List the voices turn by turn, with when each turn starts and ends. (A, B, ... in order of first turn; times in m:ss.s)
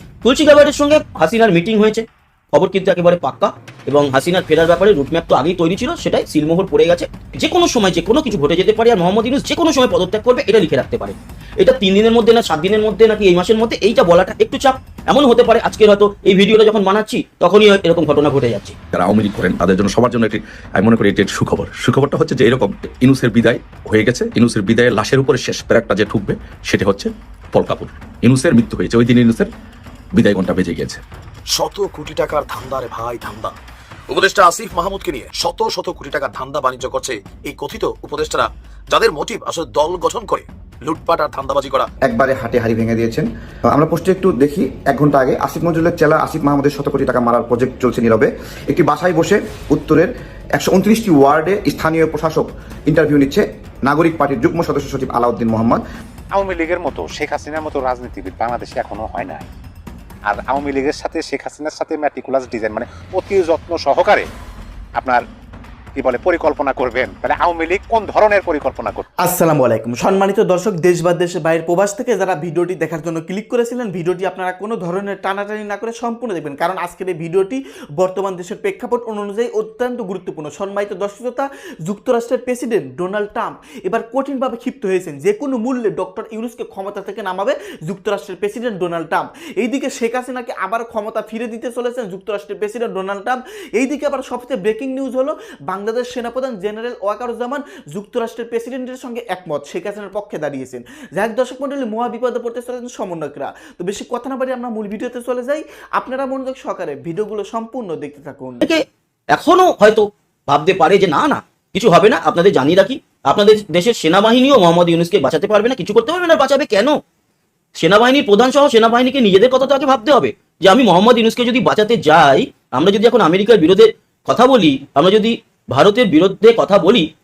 0:00.2-0:18.8 A
0:18.9-0:29.5 B
0:30.1-0:31.0 B
0:31.5-0:33.6 C
0:34.1-0:41.9 C
0:42.0-0:55.8 D
0:56.4-0:59.4 E
1:00.3-1:04.2 E
1:06.0-1:09.0 E
1:09.2-1:48.6 F
1:48.6-1:57.0 A
1:57.8-2:07.1 A